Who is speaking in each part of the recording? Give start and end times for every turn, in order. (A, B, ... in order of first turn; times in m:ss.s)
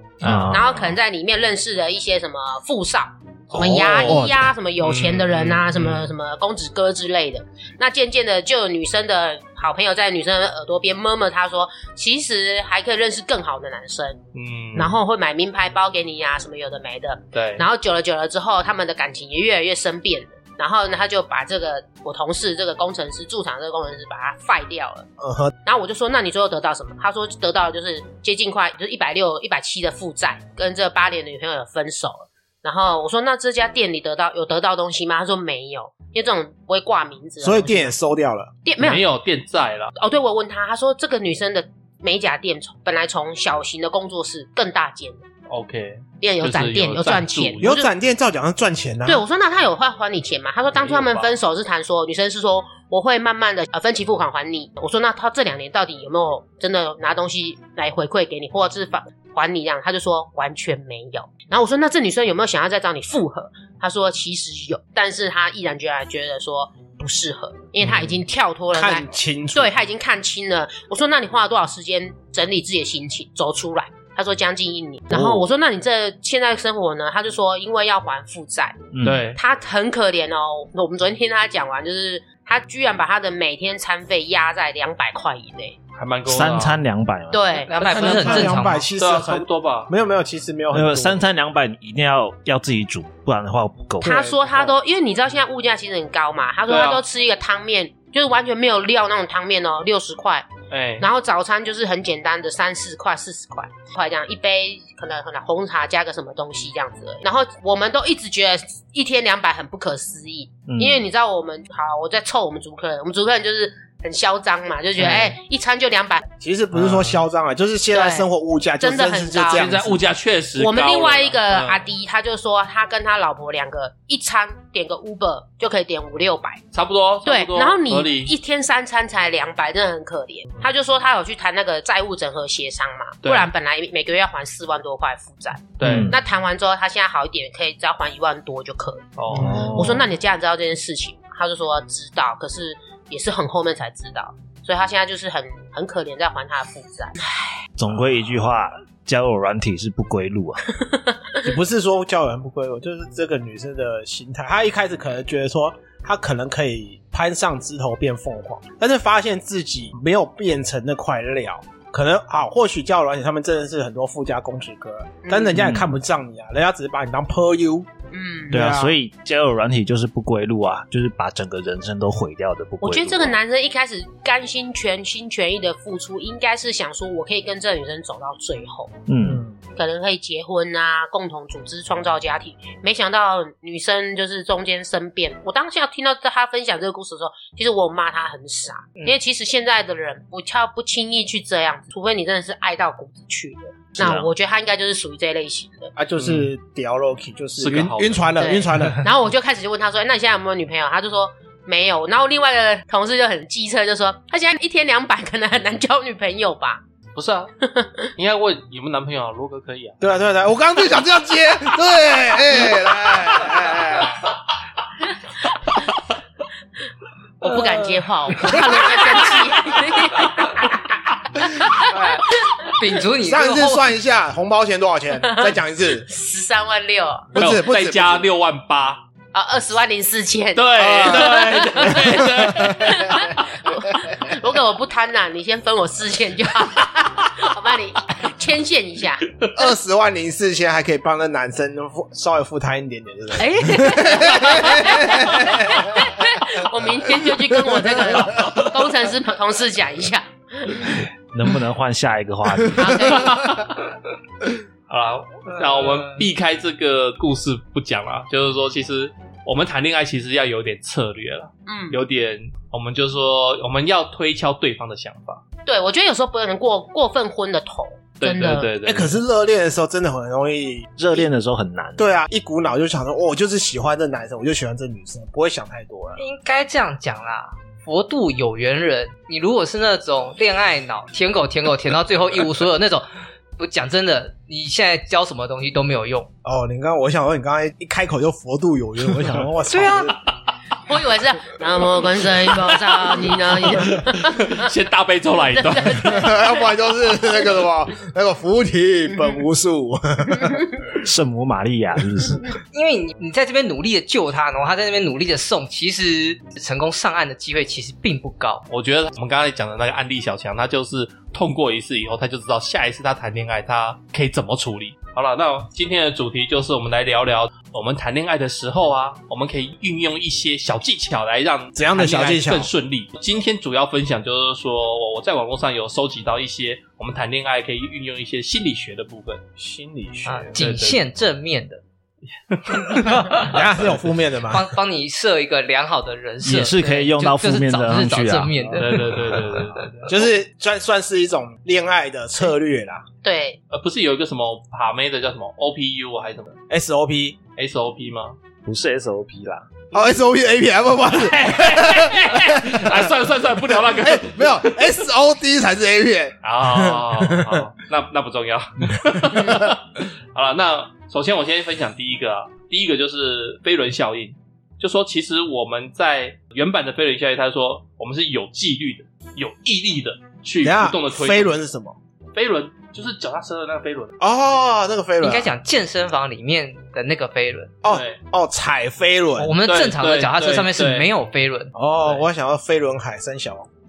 0:00.2-0:00.5 A
0:00.2-0:01.0 B
0:00.4-0:14.2 C
0:03.5-0:04.4 B
0:03.6-0:04.2 D
0:03.7-0:04.2 A
0:04.8-0:06.1 A
0:14.3-0:15.0 A
0:14.7-0:25.1 C
0:17.3-0:17.6 A
0:25.2-0:25.5 D
0:25.6-0:37.9 C
0:37.4-0:38.5 D
0:38.6-0:39.0 C
0:38.8-0:39.9 A
0:40.0-0:45.2 C
0:45.5-0:47.7 A
0:46.2-0:47.9 C
0:47.6-0:49.2 D
0:49.0-1:18.8 C
0:50.7-0:51.3 A
1:08.7-1:09.7 D
1:15.1-1:15.5 D
1:18.9-1:19.3 B
1:19.0-1:19.4 A
1:19.3-1:25.8 C
1:26.0-1:26.8 A
1:26.2-1:27.6 B
1:27.3-1:28.3 C
1:27.6-1:28.8 E
1:27.8-1:31.2 D
1:28.2-1:29.9 A
1:30.7-1:34.3 B
1:34.0-1:56.3 C
1:34.0-1:34.8 D
1:36.7-1:37.0 A
1:40.7-1:41.1 A
1:50.7-1:51.0 B
1:56.4-2:00.0 D
1:56.7-1:57.2 A
1:57.9-1:58.2 C
1:58.8-1:59.7 C
1:59.5-2:01.8 A
2:00.6-2:06.6 C
2:06.7-2:08.3 A
2:07.2-2:27.6 C
2:13.2-2:13.5 A
2:15.8-2:16.1 A
2:15.8-2:16.2 B
2:19.2-2:19.5 A
2:19.3-2:19.8 D
2:19.3-2:20.1 B
2:27.8-2:30.6 B
2:30.8-2:31.3 C
2:31.4-2:47.9 D
2:45.2-2:45.5 C
2:45.5-2:45.8 B
2:48.1-2:48.6 C
2:48.5-2:48.9 D
2:48.5-2:53.4 B
2:52.8-2:58.9 C
2:59.1-2:59.4 B
2:59.2-2:59.6 D
2:59.8-3:15.9 C
3:14.0-3:14.3 B
3:16.0-3:19.0 D
3:16.2-3:16.5 A
3:17.6-3:18.3 A
3:18.4-3:26.8 C
3:27.1-3:27.5 A
3:27.6-3:28.1 C
3:28.2-3:30.0 A
3:30.0-3:34.3 D
3:37.4-3:42.9 C
3:38.5-3:39.4 A
3:41.8-3:42.2 D
3:42.7-3:43.9 E
3:43.2-3:46.1 D
3:45.2-3:45.5 C
3:46.1-3:47.3 C
3:47.3-3:48.2 D
3:47.4-3:49.0 A
3:49.3-3:59.4 C
3:50.5-3:53.4 A
3:50.7-3:53.2 D
3:59.5-4:06.2 D
4:03.4-4:11.0 C
4:07.7-4:08.5 D
4:11.3-4:13.3 B
4:12.7-4:13.7 C
4:14.9-4:25.4 A
4:21.7-4:22.0 C
4:25.6-4:28.7 C
4:28.2-4:29.2 A
4:28.8-4:31.2 D
4:31.0-4:32.0 B
4:32.0-4:36.2 D
4:36.2-4:43.0 E
4:43.6-4:46.3 E
4:46.4-4:50.2 D
4:49.7-4:50.1 E
4:50.8-4:54.7 C
4:52.4-4:56.2 A
4:55.5-4:57.5 C
4:56.0-5:00.7 D
5:01.0-5:02.5 B
5:02.7-5:08.6 E
5:08.7-5:29.4 A
5:21.8-5:22.7 D
5:29.6-5:30.6 D
5:30.2-5:31.8 E
5:30.6-5:31.0 A
5:32.3-5:33.6 A
5:33.3-5:34.7 D
5:34.5-5:40.0 E
5:36.4-5:39.1 B
5:38.7-5:40.2 A
5:40.1-5:43.0 D
5:43.2-5:43.6 C
5:43.7-5:46.6 A
5:46.7-5:47.4 D
5:47.6-5:48.4 A
5:48.6-5:49.7 B
5:49.9-5:53.0 D
5:51.1-5:55.0 A
5:53.7-5:57.6 D
5:56.4-6:11.5 A
5:59.2-5:59.7 D
6:10.6-6:12.0 D
6:12.3-6:14.1 A
6:14.2-6:15.5 D
6:15.2-6:17.7 E
6:17.8-6:19.5 D
6:17.9-6:18.2 A
6:19.4-6:21.7 E
6:19.6-6:21.1 A
6:21.7-6:23.7 D